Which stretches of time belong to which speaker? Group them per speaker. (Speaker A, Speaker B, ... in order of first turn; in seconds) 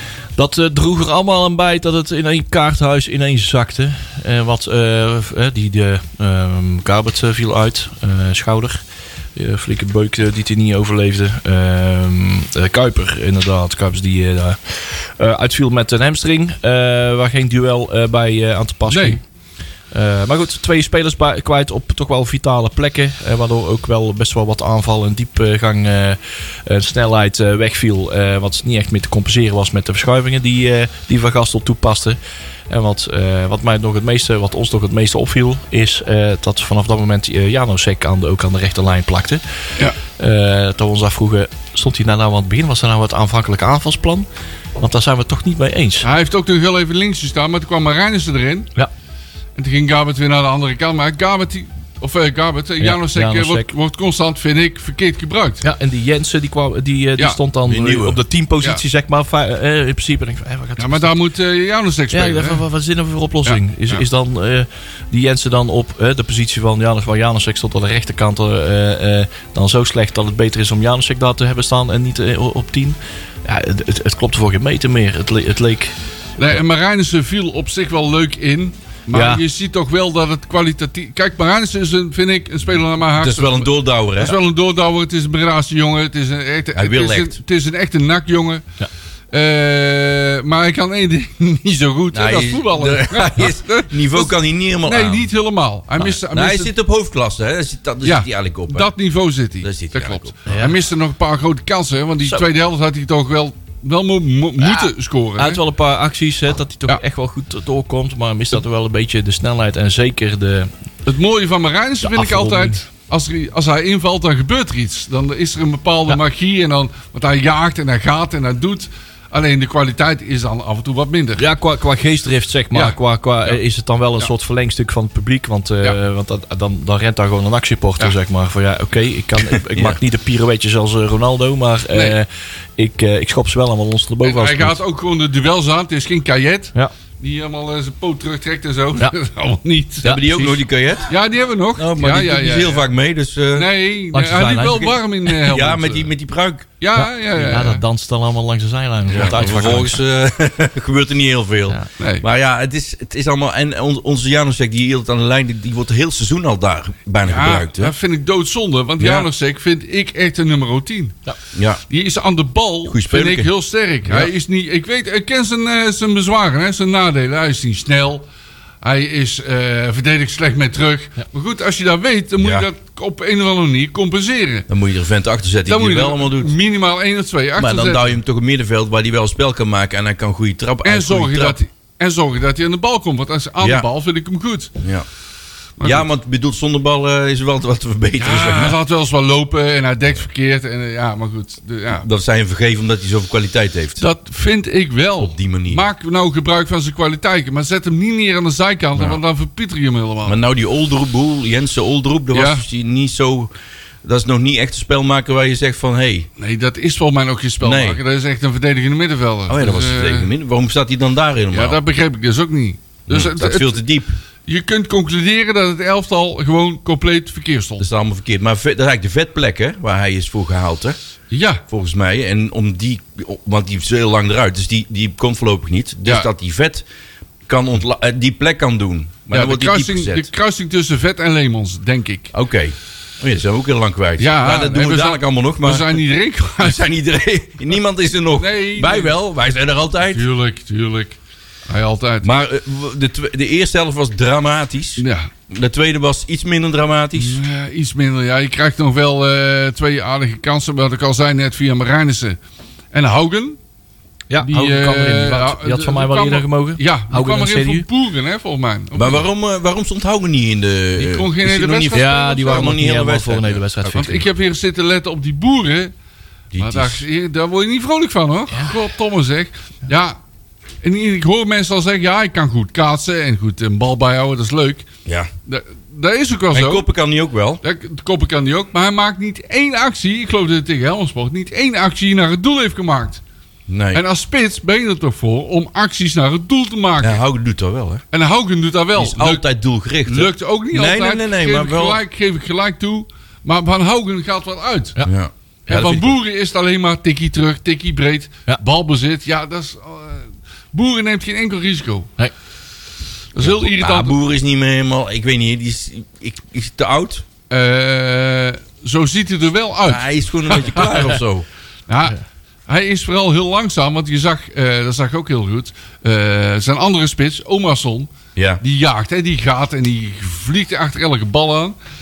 Speaker A: 0.3-8.8, 9.3-19.2, 19.9-32.2, 32.7-39.4, 40.2-46.1, 52.8-53.7, 55.6-61.1, 62.1-75.9, 79.1-79.4, 100.5-100.8, 104.6-110.7, 112.0-112.8, 121.4-134.8, 140.0-140.6, 144.1-145.0, 146.9-150.0, 254.3-257.9, 261.9-264.2
Speaker B: 18.9-19.2, 46.0-48.7, 49.5-55.6, 60.8-62.6, 63.4-64.0, 76.4-88.6, 89.3-96.7, 98.0-105.6, 111.0-121.4, 122.7-123.6, 134.2-140.3, 141.1-142.8, 143.5-146.1, 146.8-147.8, 152.0-152.2, 157.2-161.2, 161.9-168.2, 168.8-174.7, 175.7-178.1, 180.8-184.7, 185.8-186.0, 188.2-192.1, 194.0-200.4, 202.3-202.6, 206.4-210.3, 211.5-213.8, 214.4-217.8, 221.3-221.6, 229.3-232.3, 234.2-236.8, 238.3-239.1, 240.1-241.2, 241.7-242.3, 245.0-245.3, 247.2-252.4, 252.9-253.6, 254.4-259.2, 261.0-262.7, 263.9-265.9, 266.6-270.2, 270.8-274.9, 275.5-276.9, 277.6-283.2, 283.9-287.2, 288.1-289.4, 290.0-295.0, 295.7-302.1, 303.3-304.2, 307.5-311.2, 311.9-312.1, 312.7-321.8
Speaker C: 57.6-58.2, 83.2-84.4, 86.7-87.3, 92.1-95.3, 96.2-98.9, 99.6-100.3, 140.0-141.1, 141.8-143.7, 145.4-146.7, 149.1-157.9, 159.0-159.3, 161.5-161.8, 162.8-163.5, 164.1-164.3, 172.4-172.7, 174.7-176.5, 177.6-181.6, 183.6-183.9, 184.8-185.1, 185.8-188.8, 192.0-194.0, 195.2-195.8, 200.2-203.5, 204.0-206.3, 207.6-208.0, 209.5-211.8, 213.1-214.2, 217.8-221.0, 221.7-226.8, 227.5-230.3, 232.3-236.0, 236.6-240.2, 242.2-247.4, 258.9-264.2, 266.5-267.0, 276.5-277.6, 283.7-284.0, 287.0-288.0, 288.9-292.0, 295.0-296.1, 303.4-307.2, 309.8-311.4, 318.4-318.6